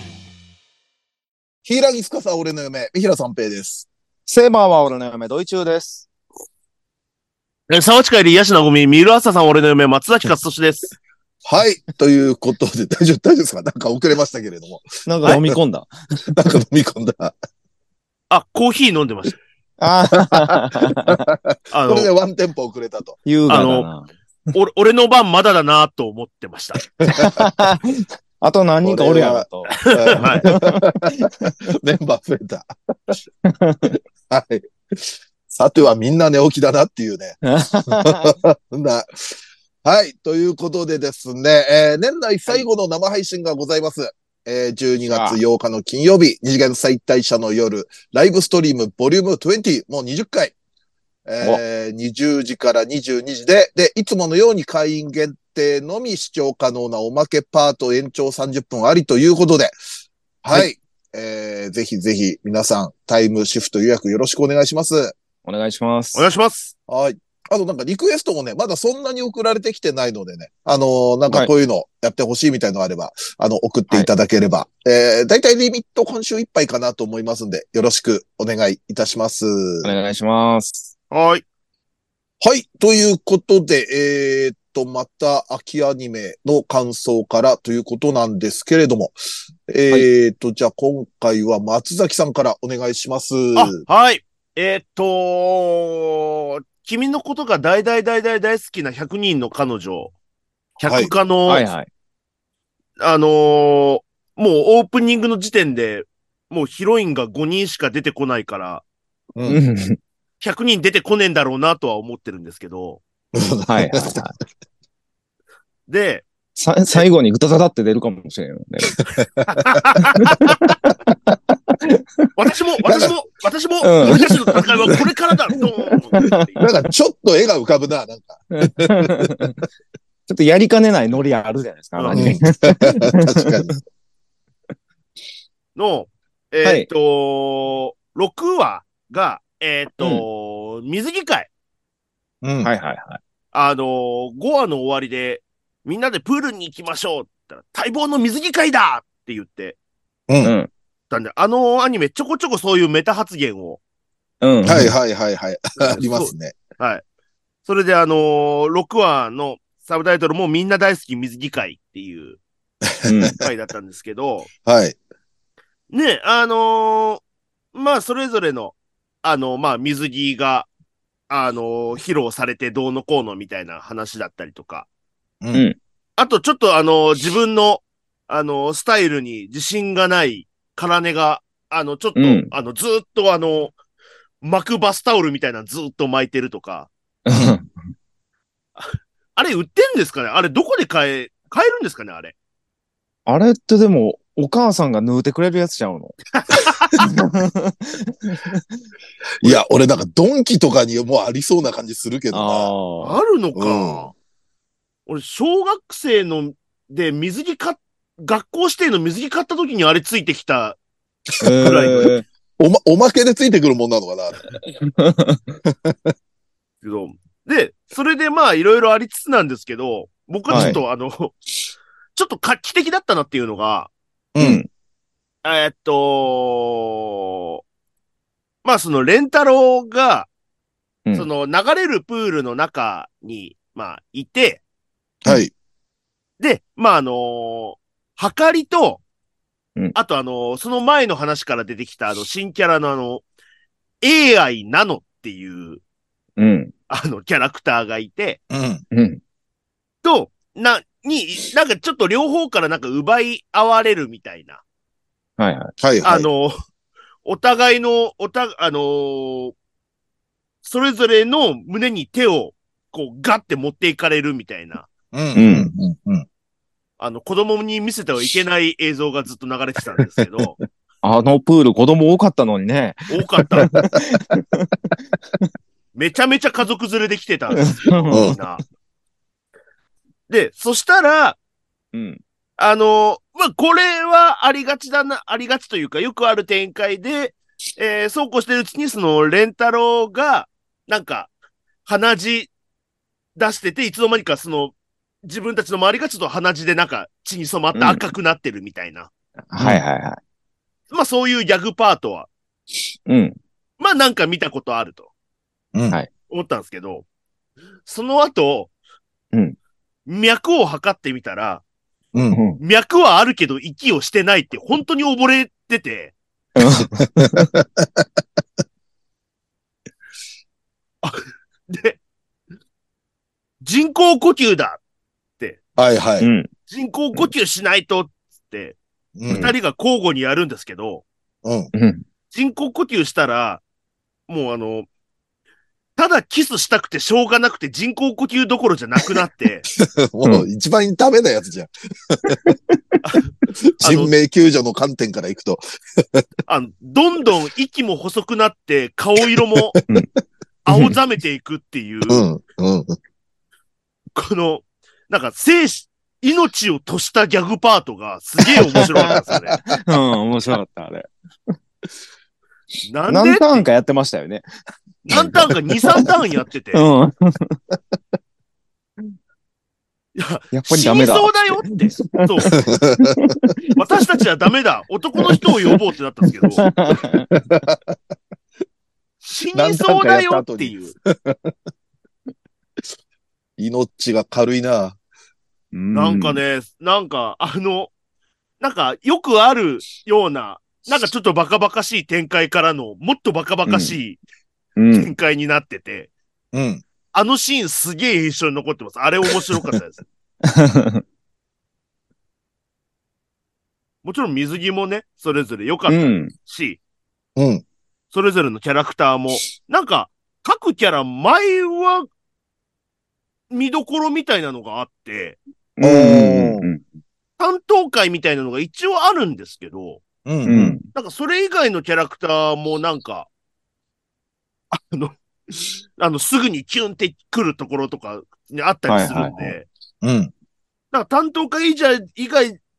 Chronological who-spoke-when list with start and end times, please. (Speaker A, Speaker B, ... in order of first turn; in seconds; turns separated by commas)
Speaker A: 1.6-3.9, Speaker B: 4.3-6.1, Speaker C: 7.7-10.9, Speaker A: 11.4-15.4, Speaker B: 15.1-15.9, Speaker A: 16.3-17.3, Speaker C: 18.3-19.4, Speaker B: 19.8-21.2, Speaker A: 20.3-23.2, Speaker C: 21.7-22.1, Speaker B: 23.2-24.1, Speaker C: 23.5-23.9, Speaker C: 24.5-26.8, Speaker A: 27.0-27.4, Speaker B: 27.1-31.7, Speaker A: 28.8-32.7, Speaker C: 29.9-30.4, Speaker B: 33.4-34.0, Speaker A: 34.3-37.4, Speaker B: 37.4-38.4, Speaker A: 37.9-50.5, Speaker B: 45.1-45.4, Speaker A: 51.2-59.7, Speaker A: 60.4-65.2, Speaker B: 65.4-66.2, Speaker C: 66.1-66.7, Speaker A: 66.9-79.9, Speaker B: 79.8-80.9, Speaker C: 81.1-81.4, Speaker A: 82.4-89.2, Speaker A: 89.7-93.8, Speaker C: 93.5-100.1, Speaker C: 100.8-101.7, Speaker A: 100.8-101.1, Speaker B: 101.5-101.9, Speaker C: 103.0-108.8, Speaker B: 109.5-110.0, Speaker C: 110.4-113.0, Speaker A: 113.3-114.3, Speaker B: 113.7-114.3, Speaker C: 115.9-116.2, Speaker B: 116.5-119.0, Speaker C: 119.4-120.5, Speaker B: 120.1-122.3, Speaker C: 122.3-126.6, Speaker A: 122.9-123.1, Speaker B: 123.8-125.0, Speaker B: 126.1-126.5, Speaker A: 126.6-129.3, Speaker B: 128.5-129.6, Speaker B: 130.3-133.8, Speaker C: 132.0-132.2, Speaker A: 132.1-133.7, Speaker C: 135.8-141.5, Speaker B: 140.0-140.2, Speaker A: 142.4-142.7, Speaker B: 142.6-143.2, Speaker C: 143.5-149.8, Speaker A: 150.3-150.5, Speaker B: 150.4-150.7, Speaker C: 151.1-153.8, Speaker B: 154.4-154.9, Speaker A: 154.6-156.6, Speaker C: 155.9-157.0, Speaker C: 157.7-162.4, Speaker A: 162.8-163.3, Speaker B: 163.0-163.4, Speaker C: 163.4-164.5, Speaker A: 164.6-165.0, Speaker C: 165.9-167.2, Speaker C: 167.7-170.7, Speaker C: 171.3-174.9, Speaker C: 176.2-183.8, Speaker B: 182.2-182.5, Speaker C: 184.4-186.9, Speaker B: 187.3-187.7, Speaker A: 187.3-187.6, Speaker C: 188.8-192.3, Speaker B: 193.2-196.1, Speaker C: 196.5-196.9, Speaker B: 197.0-198.6, Speaker A: 199.4-202.7, Speaker B: 202.3-203.2, Speaker C: 203.0-204.1, Speaker A: 203.5-204.1, Speaker C: 205.1-210.8, Speaker B: 211.4-212.2, Speaker C: 211.6-212.2, Speaker A: 212.6-214.4, Speaker B: 214.6-215.4, Speaker A: 215.7-216.1, Speaker C: 216.8-221.3, Speaker B: 220.5-220.8, Speaker A: 220.5-220.8, Speaker C: 222.2-223.9, Speaker A: 224.3-224.6, Speaker B: 224.4-224.7, Speaker C: 225.4-227.6, Speaker C: 228.6-230.3, Speaker C: 231.1-234.6, Speaker A: 235.2-235.5, Speaker C: 236.4-239.0, Speaker C: 239.9-243.2, Speaker C: 244.0-245.8, Speaker B: 246.4-246.7, Speaker C: 246.9-248.4, Speaker A: 248.5-248.8, Speaker B: 248.9-249.2, Speaker C: 250.0-254.6, Speaker B: 255.4-255.7, Speaker A: 255.8-256.3, Speaker C: 256.0-256.5, Speaker C: 257.2-259.5, Speaker C: 260.6-264.9, Speaker A: 265.1-266.3, Speaker B: 265.3-265.7, Speaker C: 267.0-270.6, Speaker B: 271.0-274.7, Speaker C: 273.1-273.7, Speaker A: 273.7-274.2, Speaker C: 275.9-278.6, Speaker B: 277.6-278.4, Speaker A: 278.1-278.4, Speaker C: 280.3-281.4, Speaker B: 281.9-282.2, Speaker C: 282.6-291.3, Speaker C: 291.9-292.5, Speaker C: 293.4-299.1, Speaker B: 297.7-298.0, Speaker B: 299.5-300.2, Speaker C: 300.9-302.3, Speaker B: 303.1-303.4, Speaker C: 303.8-305.1, Speaker C: 306.3-307.1, Speaker C: 307.9-308.7, Speaker C: 310.1-311.6, Speaker B: 312.3-312.6, Speaker C: 312.6-316.1, Speaker B: 316.6-317.5, Speaker A: 317.2-318.0, Speaker C: 321.0-322.0, Speaker C: 323.6-324.8, Speaker A: 325.8-326.3, Speaker B: 326.2-326.5, Speaker C: 326.7-328.8, Speaker A: 329.2-329.5, Speaker C: 329.3-331.0, Speaker A: 331.4-331.7, Speaker B: 331.7-332.0, Speaker C: 332.3-333.6, Speaker C: 334.3-334.9, Speaker C: 336.0-339.6, Speaker A: 339.8-342.4, Speaker B: 342.3-342.8, Speaker C: 343.0-344.1, Speaker A: 343.8-346.2, Speaker C: 346.5-349.8, Speaker A: 349.3-349.8, Speaker C: 350.6-352.3, Speaker A: 352.1-352.9, Speaker C: 354.1-359.6, Speaker A: 358.7-359.8, Speaker B: 359.7-361.1, Speaker C: 362.8-363.7, Speaker B: 363.1-364.4, Speaker C: 365.1-366.8, Speaker B: 365.1-366.1, Speaker B: 366.7-367.6, Speaker C: 370.1-372.6, Speaker B: 370.5-373.9, Speaker A: 372.5-373.5, Speaker C: 373.8-376.7, Speaker B: 376.6-377.3, Speaker A: 377.3-377.8, Speaker C: 379.2-380.9, Speaker A: 379.5-381.5, Speaker A: 383.6-385.0, Speaker B: 385.7-386.4, Speaker C: 385.9-387.9, Speaker C: 388.6-394.2, Speaker B: 393.6-393.9, Speaker B: 394.8-395.1, Speaker C: 394.9-396.1, Speaker A: 396.5-396.8, Speaker C: 397.1-400.0, Speaker B: 400.4-401.0, Speaker C: 404.0-406.8, Speaker B: 405.9-406.3, Speaker A: 407.4-407.6, Speaker C: 408.1-412.1, Speaker C: 413.5-415.4, Speaker B: 415.8-416.8, Speaker A: 415.8-416.7, Speaker C: 417.4-420.0, Speaker A: 420.2-420.8, Speaker B: 420.4-420.8, Speaker C: 420.9-423.3, Speaker C: 424.7-429.6, Speaker B: 428.9-429.5, Speaker A: 430.0-430.3, Speaker C: 430.9-432.6